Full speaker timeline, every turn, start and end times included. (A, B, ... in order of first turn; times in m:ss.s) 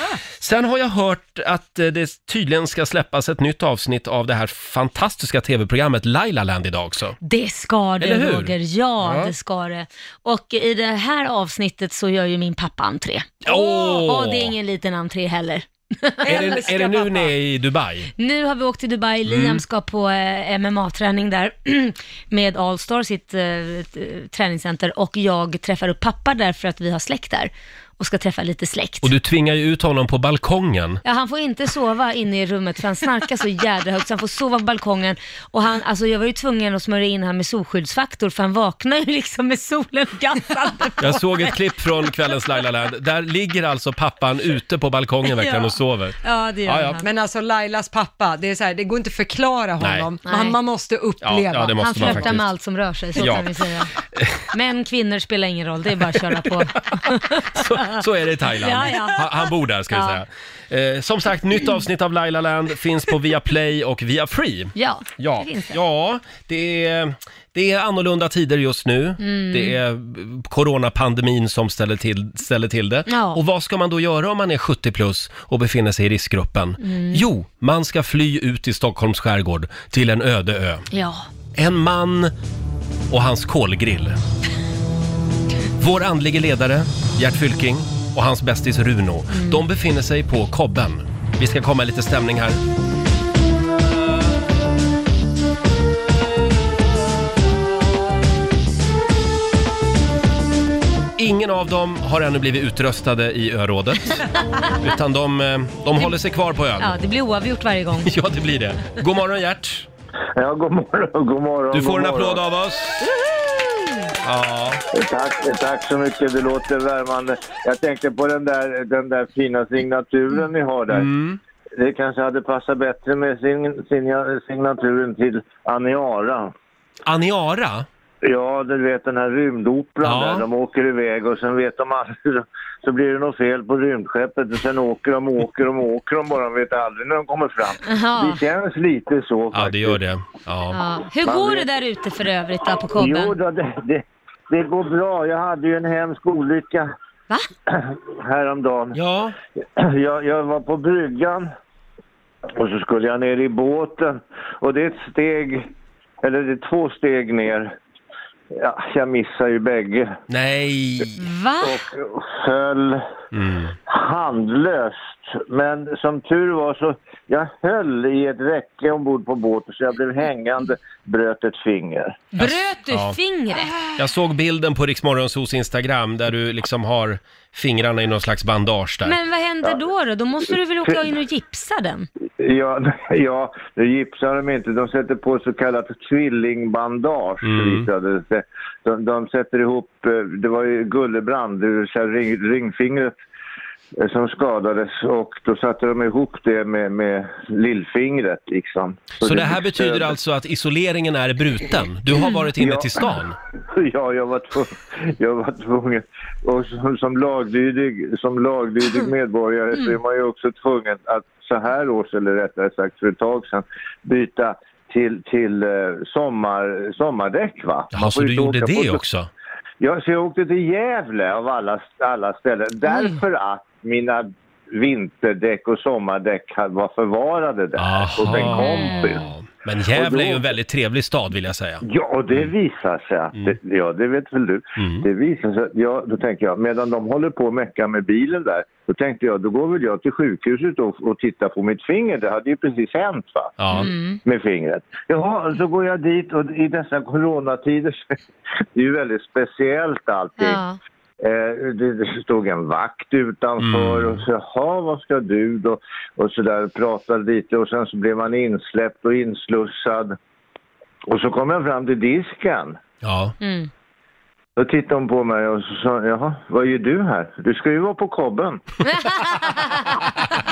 0:00.4-0:07.2 A
0:07.2-0:16.6 B
0:08.0-0:09.3 A
0:13.4-0:14.5 A
0:16.2-0:17.3 C
0:16.2-0:18.1 A
0:18.2-0:29.1 B
0:19.3-0:19.6 A
0:29.0-0:31.0 A
0:31.0-0:42.1 B
0:41.0-0:47.0 A
0:45.2-0:47.0 B
0:47.0-0:52.4 C
0:49.8-0:50.1 A
0:50.2-0:50.6 B
0:51.2-0:52.5 A
0:51.8-0:53.9 B
0:53.2-0:53.5 A
0:54.1-0:54.4 A
0:54.5-0:58.0 B
0:57.5-1:20.9 A
0:58.6-1:00.2 B
1:04.8-1:05.8 B
1:09.2-1:09.8 B
1:13.1-1:13.4 B
1:16.8-1:17.2 B
1:20.9-1:21.3 B
1:21.5-1:22.3 A
1:23.1-1:24.2 A
1:25.8-1:32.6 A
1:29.3-1:29.6 B
1:41.2-1:44.2 A
1:44.8-1:46.9 A
1:46.8-1:48.1 B
1:48.0-1:49.9 A
1:50.4-1:52.4 D
1:51.7-1:53.1 A
1:54.2-1:54.8 A
1:54.9-2:01.1 D
2:00.9-2:01.4 A
2:01.8-2:06.5 D
2:07.0-2:07.9 A
2:08.2-2:20.0 D
2:10.0-2:10.4 A
2:17.9-2:18.4 B
2:19.5-2:20.8 A
2:20.7-2:23.3 B
2:21.2-2:21.7 D
2:23.0-2:26.9 D
2:27.7-2:29.0 D
2:28.9-2:29.3 A
2:29.8-2:31.5 D
2:32.5-2:35.7 D
2:36.2-2:37.7 D
2:38.5-2:40.1 D
2:40.3-2:41.2 A
2:41.2-2:41.8 B
2:41.6-2:43.0 D
2:43.3-2:43.7 A
2:43.9-2:52.2 D
2:52.3-2:53.7 B
2:52.4-2:53.2 A
2:54.0-2:59.2 A
2:59.0-3:02.1 B
3:02.4-3:13.2 D
3:07.4-3:07.9 A
3:14.0-3:20.1 D
3:19.2-3:23.4 A
3:22.6-3:23.2 D
3:23.7-3:39.0 D
3:37.9-3:39.3 A
3:39.8-3:49.2 D
3:47.8-3:52.5 A
3:48.4-3:49.2 B
3:49.9-3:50.5 D
3:51.8-4:08.2 D
3:54.8-3:55.0 A
4:03.6-4:03.9 A
4:03.7-4:04.2 B
4:08.7-4:10.6 D
4:10.4-4:10.8 B
4:11.2-4:20.2 D
4:13.6-4:14.2 A
4:21.1-4:22.8 D
4:23.0-4:23.4 A
4:23.4-4:23.7 B
4:24.6-4:28.6 D
4:28.9-4:29.7 B